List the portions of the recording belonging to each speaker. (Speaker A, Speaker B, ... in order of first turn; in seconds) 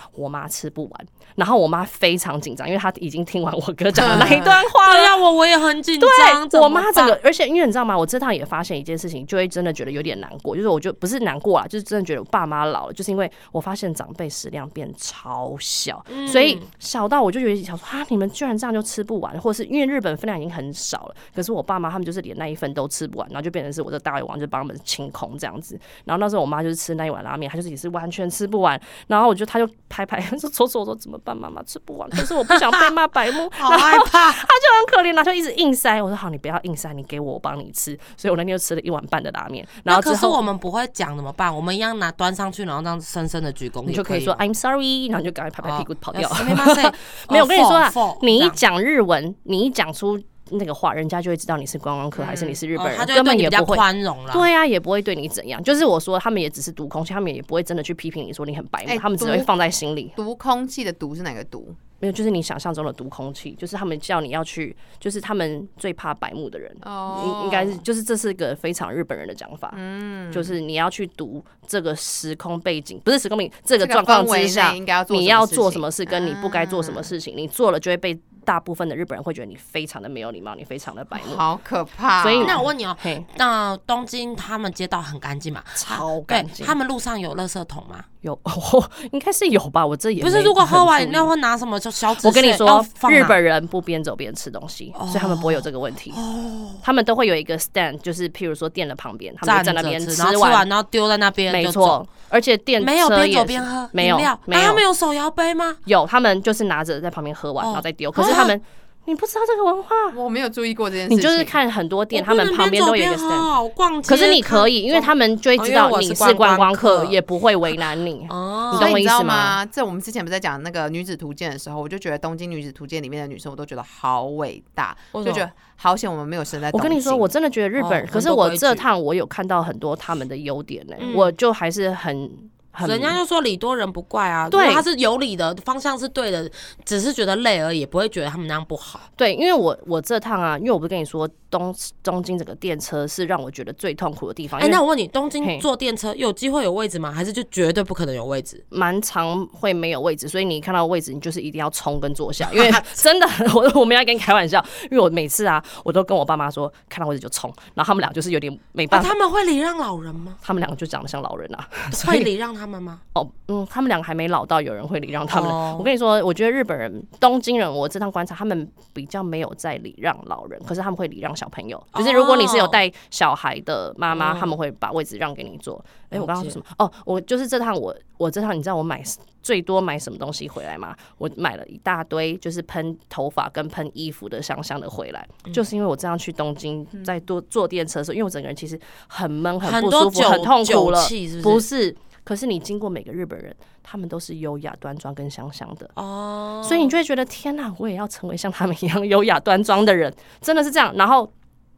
Speaker A: 0.1-5.1, 6.0-40.4, 43.9-60.1, 62.0-69.8, 70.3-81.4, 82.2-83.3, 85.8-86.7, 88.2-91.3, 92.2-96.2, 96.8-100.7, 101.5-104.8, 105.8-110.2, 111.1-113.5, 114.0-119.6, 126.7-133.2, 134.5-134.8, 139.2-144.8, 148.7-159.1, 160.4-162.3, 163.1-195.9, 196.6-201.3
Speaker B: 4.0-7.2, 16.1-16.6, 33.5-34.4, 39.9-44.4, 45.6-48.6, 52.8-54.4, 82.4-88.0, 90.2-93.3, 94.9-96.8, 99.4-102.0, 102.8-105.8, 107.6-108.6, 112.1-117.8, 118.3-119.0, 125.1-125.5, 127.8-128.8, 131.0-131.3, 132.8-139.1, 144.6-148.6, 152.4-153.0, 158.9-160.4, 161.9-163.0, 165.3-165.9, 171.9-172.8, 174.1-174.5, 176.1-176.6, 189.6-191.6, 195.9-196.9
Speaker C: 52.1-52.6, 58.9-59.5, 60.1-61.8, 66.8-67.8, 69.7-70.5, 73.8-77.1, 81.1-82.6, 110.1-111.5, 118.7-127.3